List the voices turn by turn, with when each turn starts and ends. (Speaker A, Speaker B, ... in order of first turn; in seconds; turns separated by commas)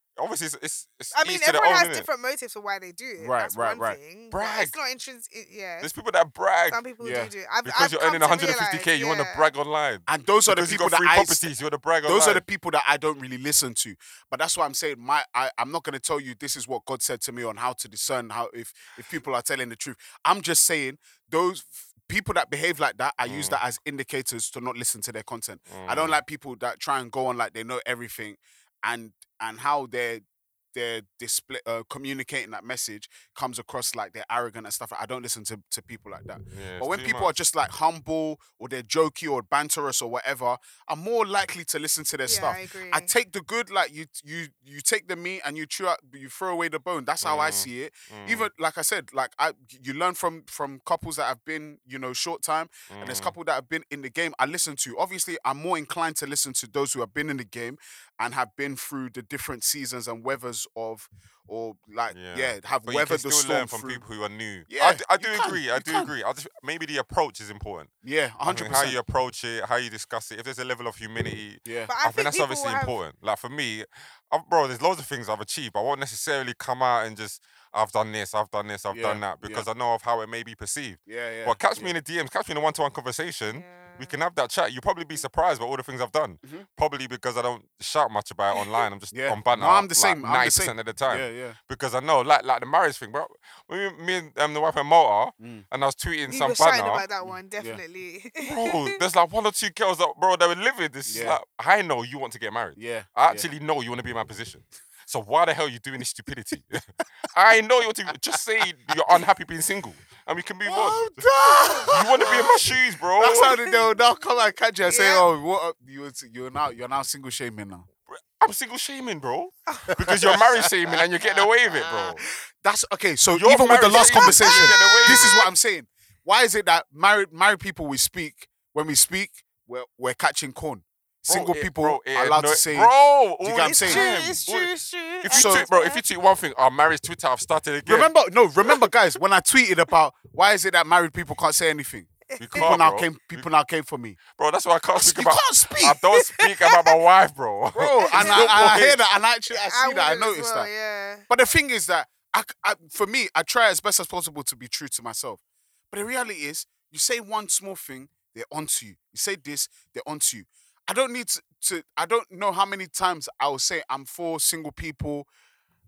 Speaker A: 0.2-2.1, Speaker B: 1.1-5.9, Speaker C: 3.2-4.0, Speaker A: 4.3-4.8, Speaker A: 5.8-6.8, Speaker B: 6.7-9.5, Speaker C: 7.0-7.3, Speaker A: 7.6-12.4, Speaker C: 10.1-11.4, Speaker C: 12.1-64.0, Speaker A: 23.2-23.6, Speaker A: 25.7-26.2, Speaker A: 36.5-37.3, Speaker B: 42.2-43.1, Speaker A: 47.2-48.5, Speaker A: 52.9-53.3, Speaker A: 62.1-67.9, Speaker C: 64.7-66.1, Speaker C: 68.0-69.0, Speaker A: 68.4-97.0, Speaker C: 71.6-71.9, Speaker B: 71.9-73.0, Speaker C: 78.9-79.7, Speaker C: 81.1-81.9, Speaker B: 83.5-84.2, Speaker B: 88.6-88.8, Speaker C: 89.1-91.6, Speaker C: 95.4-95.7, Speaker B: 96.3-98.9, Speaker C: 97.2-97.8, Speaker A: 98.4-111.2, Speaker C: 101.0-101.4, Speaker C: 102.8-103.5, Speaker C: 110.7-117.9, Speaker A: 111.8-113.5, Speaker B: 113.4-113.9, Speaker B: 114.9-115.2, Speaker A: 118.1-122.2, Speaker B: 119.7-120.0, Speaker C: 120.0-120.4, Speaker C: 121.2-134.1, Speaker A: 123.3-125.3, Speaker B: 123.9-125.5, Speaker A: 131.3-138.1, Speaker B: 133.6-136.0, Speaker C: 135.3-135.7, Speaker C: 137.8-144.2, Speaker B: 142.3-142.8, Speaker A: 142.4-143.4, Speaker A: 144.3-149.0, Speaker C: 144.9-146.0, Speaker B: 146.2-146.8, Speaker C: 147.7-150.7, Speaker B: 148.1-148.7, Speaker B: 149.7-151.3, Speaker C: 151.3-165.3